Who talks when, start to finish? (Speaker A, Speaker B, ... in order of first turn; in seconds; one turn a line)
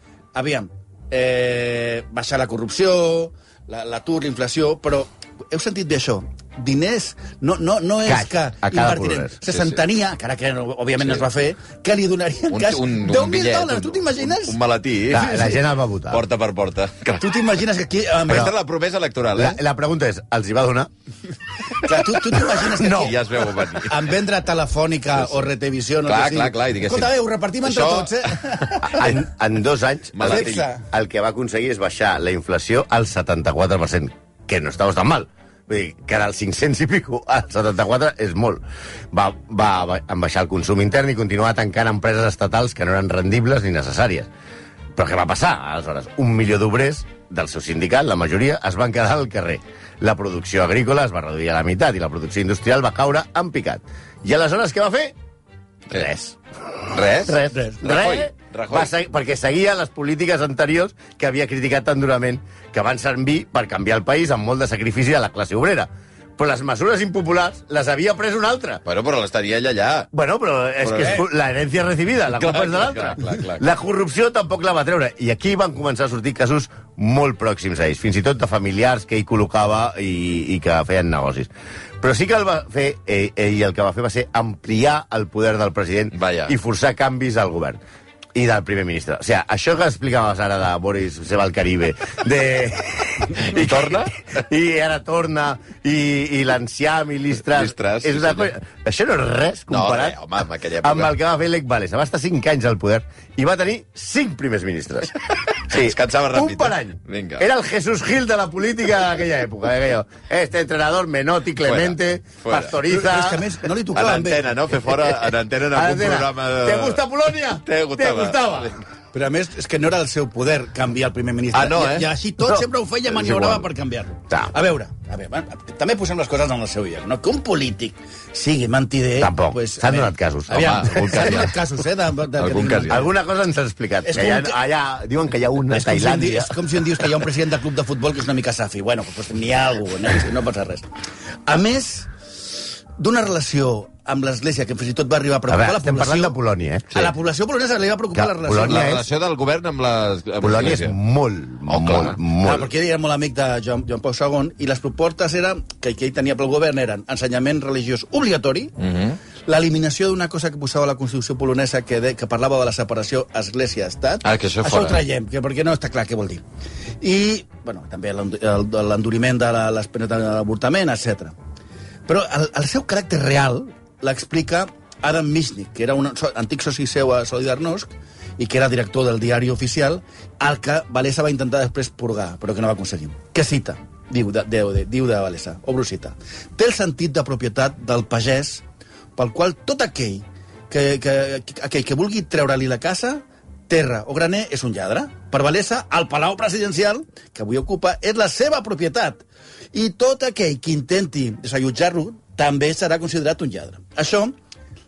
Speaker A: 0.3-14.6
Speaker B: 8.1-9.4
Speaker C: 9.5-9.8
Speaker C: 12.5-17.4
Speaker B: 15.1-16.2
Speaker A: 15.2-15.5
Speaker A: 17.2-18.5
Speaker C: 18.3-19.6
Speaker B: 19.4-20.9
Speaker A: 21.8-29.2
Speaker C: 22.5-24.1
Speaker B: 22.8-23.1
Speaker C: 25.2-25.5
Speaker C: 26.1-28.9
Speaker B: 28.8-44.3
Speaker C: 30.1-30.7
Speaker A: 30.2-30.9
Speaker B: 45.0-55.1
Speaker B: 55.9-56.4
Speaker C: 56.9-58.9
Speaker B: 57.0-68.8
Speaker C: 68.9-70.1
Speaker B: 70.1-81.5
Speaker C: 70.8-71.3
Speaker C: 72.3-73.7
Speaker B: 82.0-87.8
Speaker C: 86.1-86.5
Speaker B: 88.3-100.2
Speaker C: 93.4-94.2
Speaker C: 97.5-98.5
Speaker C: 99.7-101.1
Speaker B: 100.8-113.5
Speaker C: 105.5-107.5
Speaker C: 111.6-112.8
Speaker A: 112.9-114.5
Speaker C: 113.9-117.0
Speaker B: 115.7-118.8
Speaker C: 117.7-118.8
Speaker A: 119.1-133.1
Speaker C: 121.5-122.1
Speaker B: 122.5-123.7
Speaker B: 129.2-130.9
Speaker C: 130.6-131.5
Speaker C: 132.4-133.1
Speaker B: 132.9-136.5
Speaker A: 134.0-134.6
Speaker A: 135.7-140.8
Speaker A: 141.5-146.3
Speaker B: 145.5-146.9
Speaker A: 146.9-149.0
Speaker B: 148.2-149.0
Speaker C: 148.6-150.9
Speaker B: 150.4-152.7
Speaker C: 151.7-152.2
Speaker A: 152.4-158.7
Speaker C: 158.8-159.2
Speaker A: 159.5-166.4
Speaker C: 164.2-165.0
Speaker A: 167.0-171.3
Speaker A: 172.1-188.6
Speaker A: 189.2-204.4